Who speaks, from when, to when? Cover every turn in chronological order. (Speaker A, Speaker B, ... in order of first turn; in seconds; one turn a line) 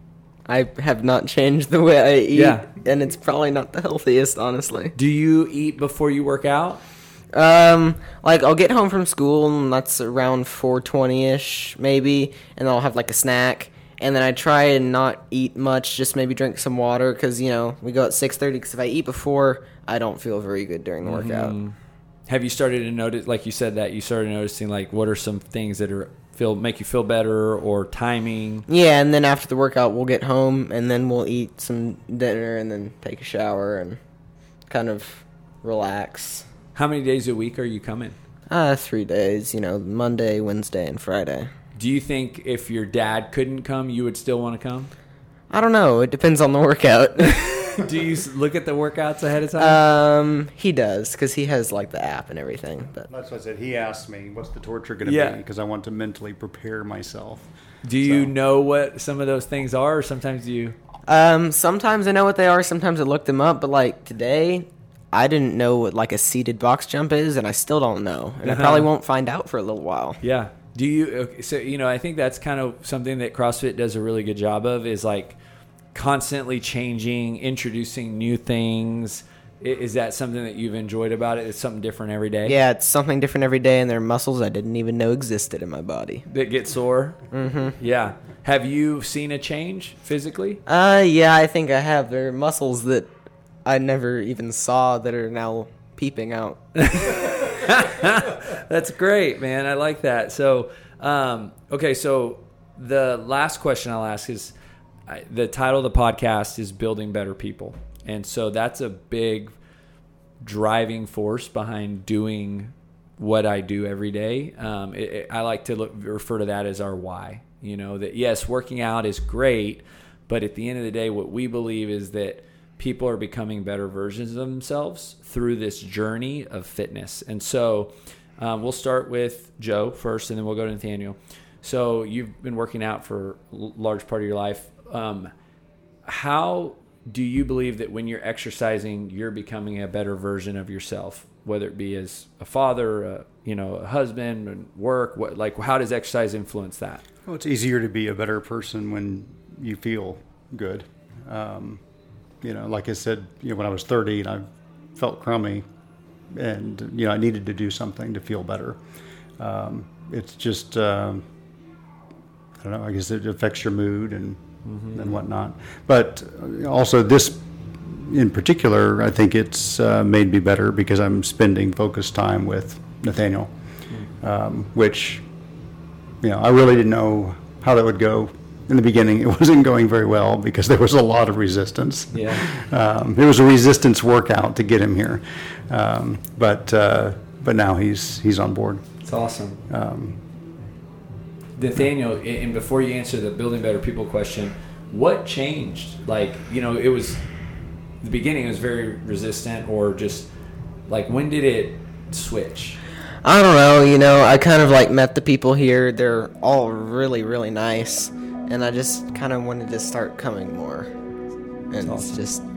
Speaker A: 0.5-5.0
Speaker B: 2.3-2.7
Speaker B: 5.0-6.8
Speaker A: 7.3-21.6
Speaker B: 21.0-21.8
Speaker B: 22.3-28.6
Speaker A: 28.7-34.0
Speaker A: 34.7-36.5
Speaker B: 36.8-38.2
Speaker A: 38.5-41.5
Speaker B: 41.8-44.9
Speaker A: 45.5-47.9
Speaker B: 47.2-49.8
Speaker A: 49.6-53.1
Speaker C: 53.1-58.3
Speaker B: 55.0-55.4
Speaker B: 57.8-60.8
Speaker A: 61.1-70.2
Speaker B: 68.4-68.9
Speaker B: 70.2-75.4
Speaker B: 75.9-82.6
Speaker A: 82.5-86.2
Speaker B: 86.3-90.6
Speaker A: 87.3-87.8
Speaker A: 90.7-93.1
Speaker A: 93.7-97.4
Speaker B: 96.8-104.5
Speaker B: 105.1-109.5
Speaker B: 110.4-135.3
Speaker B: 136.1-147.0
Speaker C: 147.3-151.8
Speaker C: 152.4-155.7
Speaker C: 156.3-158.8
Speaker C: 159.4-161.2
Speaker C: 162.6-173.5
Speaker B: 164.7-165.2
Speaker C: 174.2-175.2
Speaker C: 176.2-188.9
Speaker B: 182.1-182.5
Speaker B: 189.0-189.6
Speaker C: 189.7-190.2
Speaker B: 191.6-197.2
Speaker B: 198.0-200.3
Speaker B: 200.9-202.8
Speaker A: 203.2-210.9
Speaker A: 211.7-212.4
Speaker B: 211.8-212.3